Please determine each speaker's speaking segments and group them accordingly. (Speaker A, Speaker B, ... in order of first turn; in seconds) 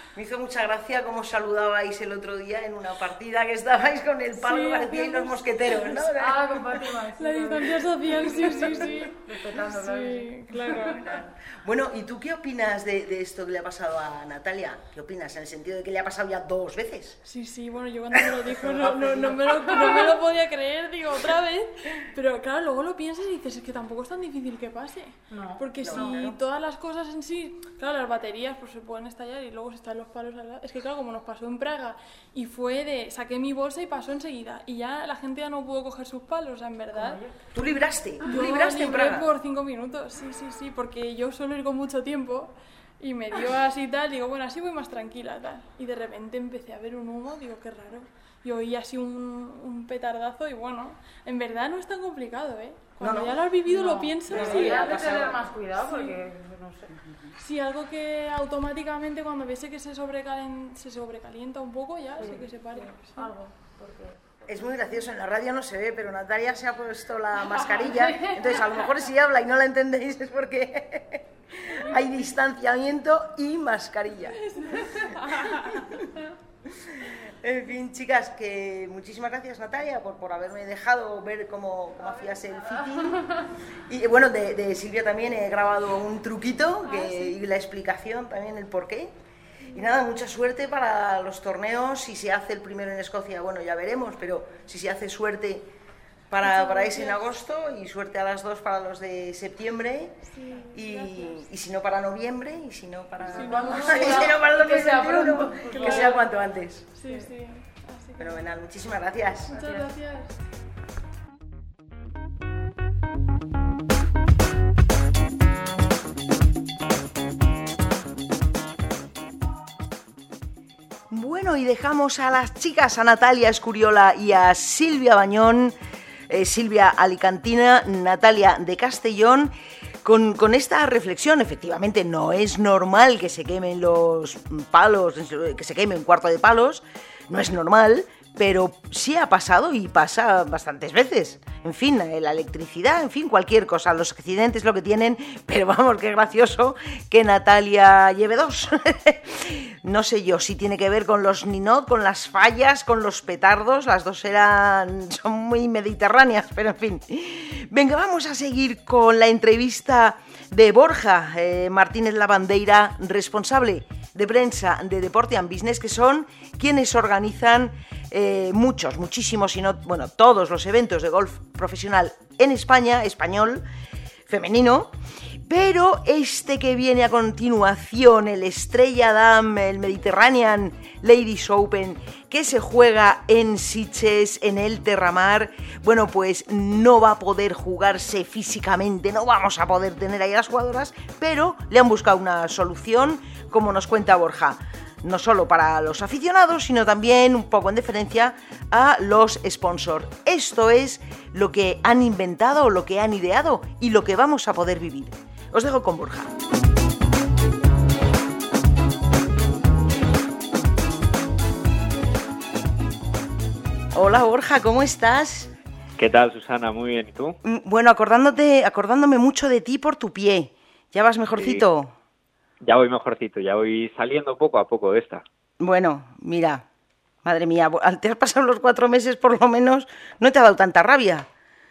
Speaker A: 0.1-6.6, 10.9-17.2, 18.1-20.0, 25.8-26.4, 37.5-39.3, 53.0-53.4, 54.3-55.5, 64.5-76.0, 76.7-89.1, 89.7-95.7, 96.3-106.9, 108.2-109.5, 121.1-125.7, 126.3-129.5, 130.0-173.6, 174.3-206.3, 213.9-215.5, 217.4-221.9, 225.6-226.6, 227.2-231.3
Speaker B: 4.4-5.9, 7.0-11.2, 17.2-37.2, 38.2-55.1, 55.8-56.2, 57.4-63.3, 74.2-76.1, 96.4-97.2, 100.3-101.5, 103.3-104.3, 105.7-106.2, 106.9-108.4, 109.5-110.4
Speaker C: 5.8-11.0, 25.3-26.2, 36.9-37.4, 53.6-56.9, 62.2-64.2, 68.0-68.4, 87.0-87.3, 103.3-106.2, 107.0-107.3, 109.5-109.9
Speaker D: 216.0-217.4, 221.4-221.6, 222.6-225.2